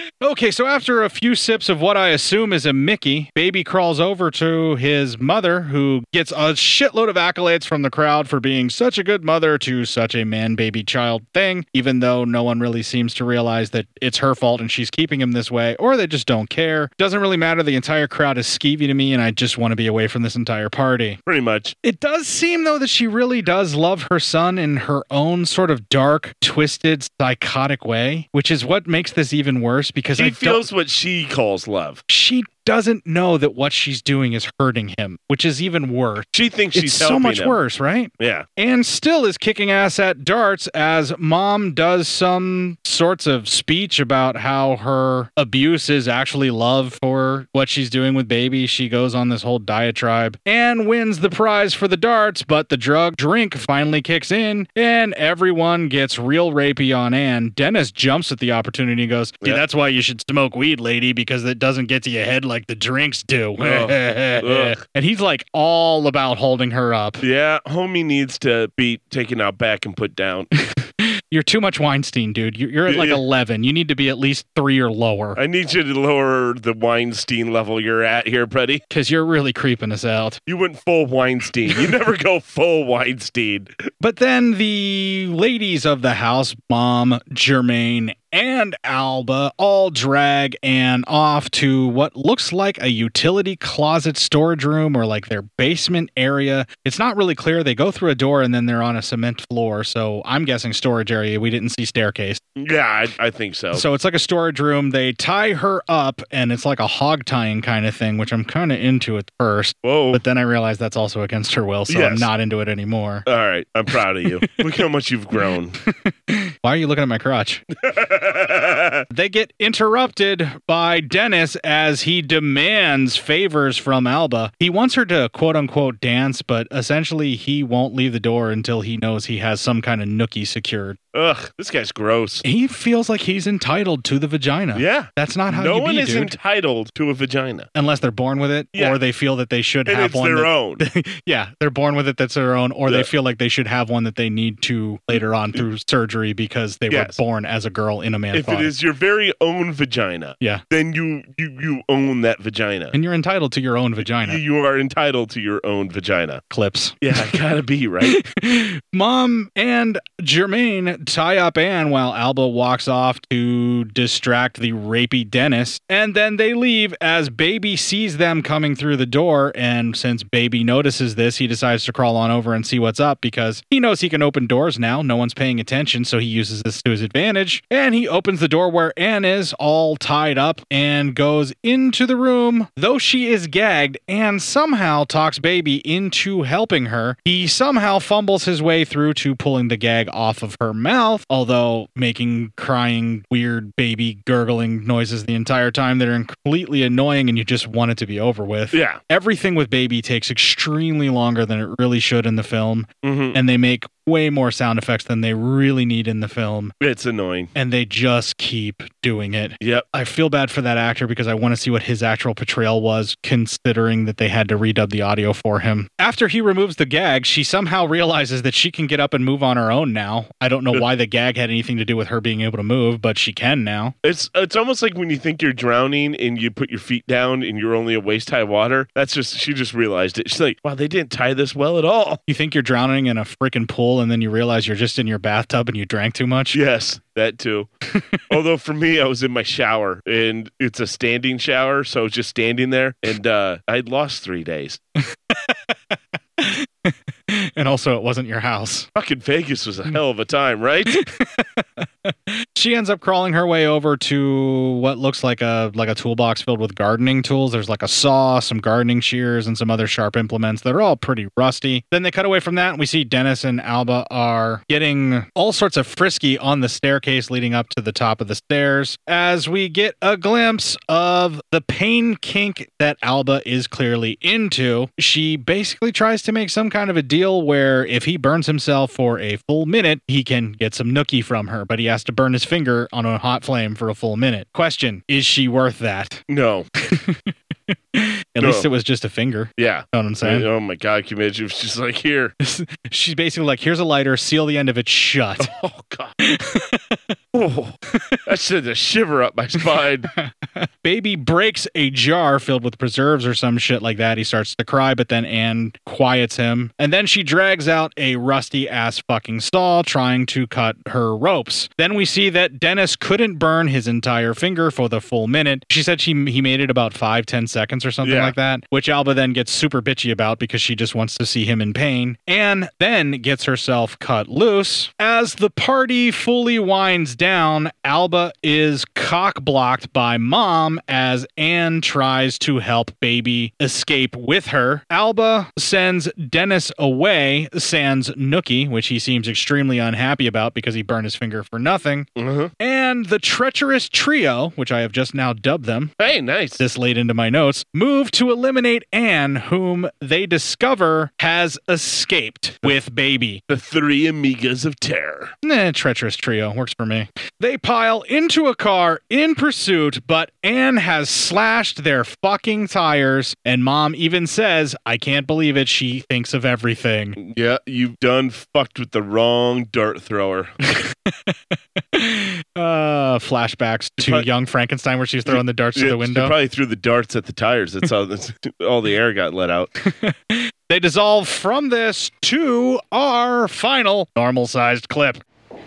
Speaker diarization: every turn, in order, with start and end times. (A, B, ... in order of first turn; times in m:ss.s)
0:00.2-0:21.2 A
0:21.3-0:21.7 B
0:21.8-0:30.6 A
0:30.2-0:32.0 B
0:32.1-1:07.2 A
0:36.3-0:37.6 B
0:38.2-0:38.4 B
1:03.6-1:04.8 B
1:07.2-1:10.5 B
1:11.0-1:15.4 A
1:12.9-1:13.2 B
1:15.4-1:18.8 B
1:18.9-1:20.4 A
1:20.5-1:23.7 B
1:24.0-1:42.4 A
1:42.6-1:43.8 B
1:43.7-1:53.2 A
1:49.8-1:50.2 B
1:51.9-1:52.3 B
1:53.2-1:55.8 B
1:55.9-1:57.6 A
1:57.8-1:59.0 B
1:59.1-2:11.0 A
2:11.1-2:12.4 B
2:12.4-2:16.3 A
2:14.7-2:17.7 B
2:17.7-2:28.7 A
2:19.9-2:20.8 B
2:25.1-2:25.6 B
2:26.9-2:27.2 B
2:28.3-2:32.9 B
2:32.9-2:34.4 A
2:34.0-2:36.4 B
2:36.5-2:37.3 A
2:37.0-2:38.2 B
2:38.0-3:26.7 A
3:18.7-3:19.0 B
3:23.0-3:23.4 B
3:26.8-3:27.5 B
3:27.5-3:43.9 A
3:29.6-3:29.8 B
3:44.0-3:52.2 B
3:52.3-3:56.6 A
3:56.5-3:57.7 B
3:58.3-4:04.8 B
4:05.3-4:05.6 A
4:06.4-4:08.9 A
4:08.9-4:11.0 B
4:10.9-4:46.2 A
4:46.3-4:46.7 B
4:46.9-4:50.4 A
4:48.4-4:48.7 B
4:49.6-4:52.3 B
4:52.4-4:55.5 A
4:55.4-4:56.1 B
4:56.2-4:57.0 A
4:57.3-5:00.1 B
5:00.2-5:42.1 A
5:18.0-5:18.3 B
5:42.2-5:42.5 B
5:42.6-5:45.9 A
5:46.0-5:46.6 B
5:46.6-5:53.4 A
5:53.5-5:55.3 B
5:55.4-6:07.2 A
6:07.2-6:10.5 B
6:10.8-6:11.3 A
6:11.9-6:16.3 A
6:14.0-6:14.2 B
6:15.3-6:19.7 B
6:19.8-6:25.2 A